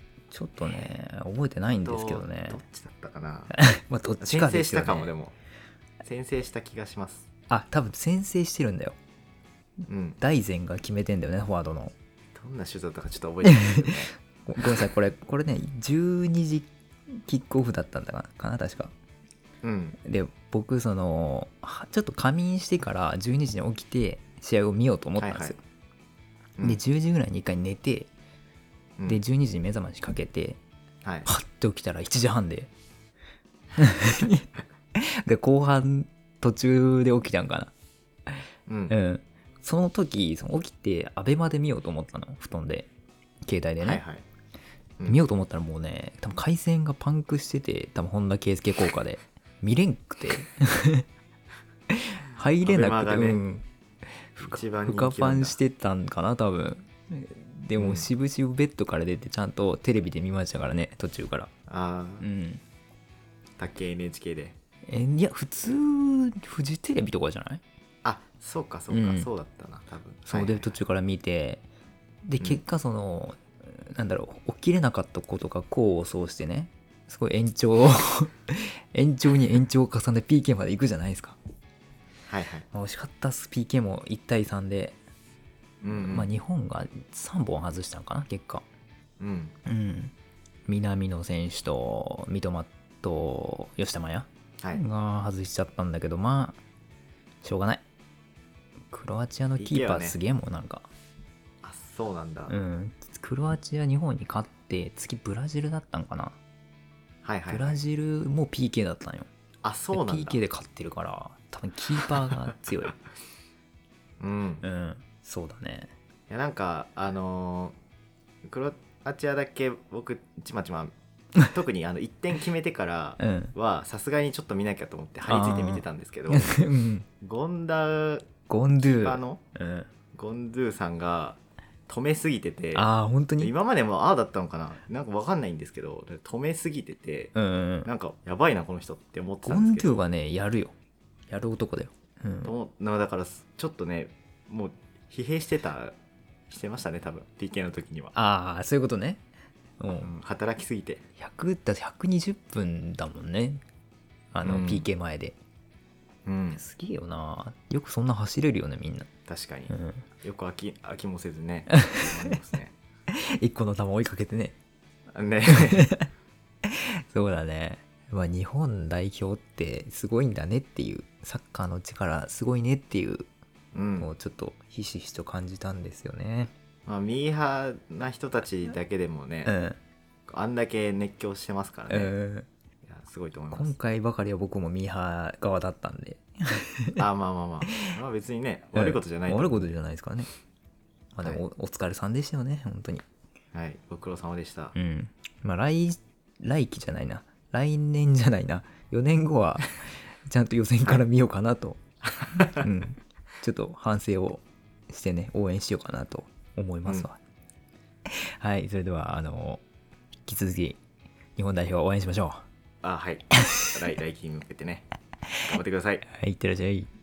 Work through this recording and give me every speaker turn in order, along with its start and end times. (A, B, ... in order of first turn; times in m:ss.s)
0:00.3-0:02.6 A
0:01.8-0:03.5 B
0:03.5-0:05.1 A
0:04.2-0:05.3 B
0:06.0-0:07.3 B
0:07.5-0:09.0 A
0:09.9-0:10.2 B
0:10.2-0:11.9 A
0:12.4-0:14.1 B
0:13.4-0:13.9 A
0:14.4-0:16.7 A
0:17.2-0:18.9 A
0:19.6-0:20.0 B
0:20.0-0:25.6 A
0:25.2-0:25.5 B
0:26.6-0:28.1 A
0:29.1-0:30.6 A
0:31.0-0:31.3 B
0:31.2-0:32.7 A
0:33.8-0:37.7 A
0:38.7-0:38.9 B
0:38.9-0:42.9 A
0:43.4-0:44.0 A
0:43.8-0:44.2 B
0:45.0-0:51.0 A
0:51.9-0:53.6 A
0:52.6-0:53.4 B
0:54.3-1:01.5 A
0:54.4-0:55.6 B
0:57.8-0:58.1 B
1:01.7-1:02.2 B
1:02.2-1:02.6 A
1:03.6-1:04.6 B
1:04.9-1:07.6 A
1:08.0-1:10.7 B
1:08.9-1:09.3 A
1:10.3-1:11.6 A
1:12.3-1:21.4 A
1:22.3-1:22.6 B
1:22.7-1:25.0 A
1:25.8-1:26.3 B
1:25.9-1:28.6 A
1:29.2-1:29.5 B
1:29.6-1:30.1 A
1:30.7-1:36.6 A
1:37.4-1:37.8 A
1:38.9-1:40.9 A
1:39.6-1:40.2 B
1:41.6-1:42.6 B
1:42.5-1:46.4 A
1:47.2-1:47.8 B
1:47.5-1:49.3 A
1:49.6-1:50.4 B
1:49.9-1:53.0 A
1:54.2-1:54.6 B
1:54.6-1:55.9 A
1:56.3-1:57.8 B
1:58.4-2:00.9 B
2:01.5-2:06.6 B
2:03.2-2:03.5 A
2:05.3-2:07.0 A
2:07.2-2:09.4 B
2:08.5-2:09.9 A
2:10.1-2:12.9 B
2:12.7-2:13.5 A
2:13.4-2:17.3 B
2:17.3-2:17.9 A
2:17.8-2:20.0 B
2:19.4-2:20.7 A
2:21.3-2:22.5 A
2:22.4-2:25.9 B
2:26.5-2:28.1 B
2:28.1-2:29.2 A
2:29.8-2:30.1 A
2:30.0-2:31.0 B
2:31.2-2:33.6 A
2:34.3-2:35.4 A
2:34.4-2:34.9 B
2:36.2-2:36.6 B
2:36.6-2:39.1 A
2:39.3-2:42.7 B
2:39.7-2:40.0 A
2:41.7-2:42.0 A
2:43.1-2:44.6 A
2:45.1-2:45.9 B
2:45.5-2:46.1 A
2:46.6-2:53.3 A
2:53.7-2:54.1 B
2:54.0-2:56.5 A
2:56.9-2:59.5 B
2:59.4-2:59.8 A
3:00.3-3:02.1 B
3:01.9-3:02.5 A
3:02.8-3:03.7 B
3:03.5-3:07.0 A
3:07.0-3:09.7 B
3:08.8-3:10.3 A
3:11.1-3:13.0 A
3:13.5-3:14.7 B
3:14.7-3:21.8 A
3:22.3-3:22.6 B
3:22.6-3:27.2 A
3:28.1-3:29.6 A
3:30.2-3:30.8 A
3:31.4-3:32.4 A
3:32.8-3:34.8 B
3:35.4-3:36.0 B
3:36.1-3:36.9 A